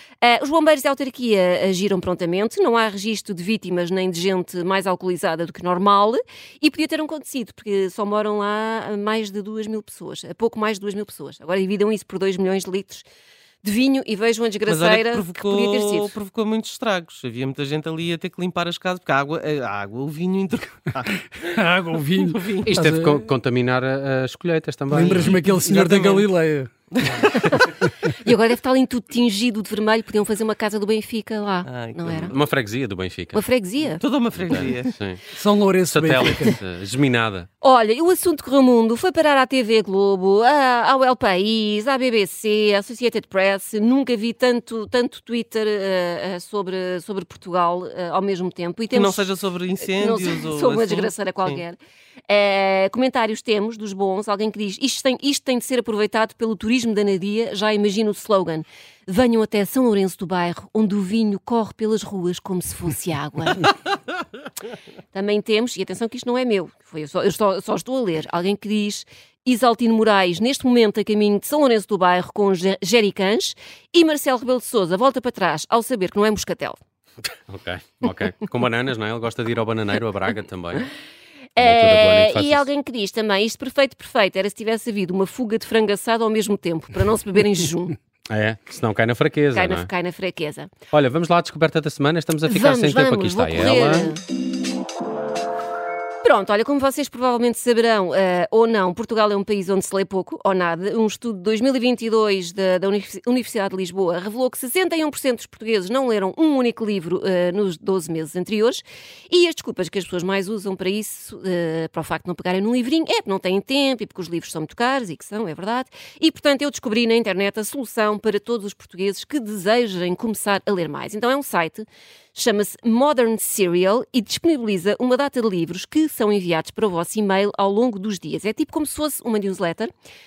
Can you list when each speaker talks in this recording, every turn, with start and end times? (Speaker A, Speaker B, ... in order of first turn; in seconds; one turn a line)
Speaker A: 0.2-13.1
Speaker A: 13.6-16.1
Speaker B: 14.7-21.1
Speaker C: 21.2-23.3
Speaker B: 22.1-22.7
Speaker D: 22.6-25.4
Speaker C: 24.9-27.3
Speaker B: 25.0-26.3
Speaker B: 26.9-27.2
Speaker A: 27.4-32.4
Speaker B: 31.7-32.4
Speaker D: 32.2-33.4
Speaker A: 33.3-34.0
Speaker B: 33.8-35.0
Speaker D: 34.3-35.2
Speaker C: 35.3-36.6
Speaker D: 35.9-37.5
Speaker A: 37.6-49.3
Speaker B: 48.9-51.6
Speaker A: 49.9-63.7
Speaker A: 65.1-76.8
Speaker D: 77.5-80.9
Speaker A: 81.6-88.0
Speaker D: 81.6-82.7
Speaker D: 88.3-89.9
Speaker A: 89.5-90.7
Speaker D: 90.9-94.1
Speaker A: 92.5-94.2
Speaker A: 96.2-129.9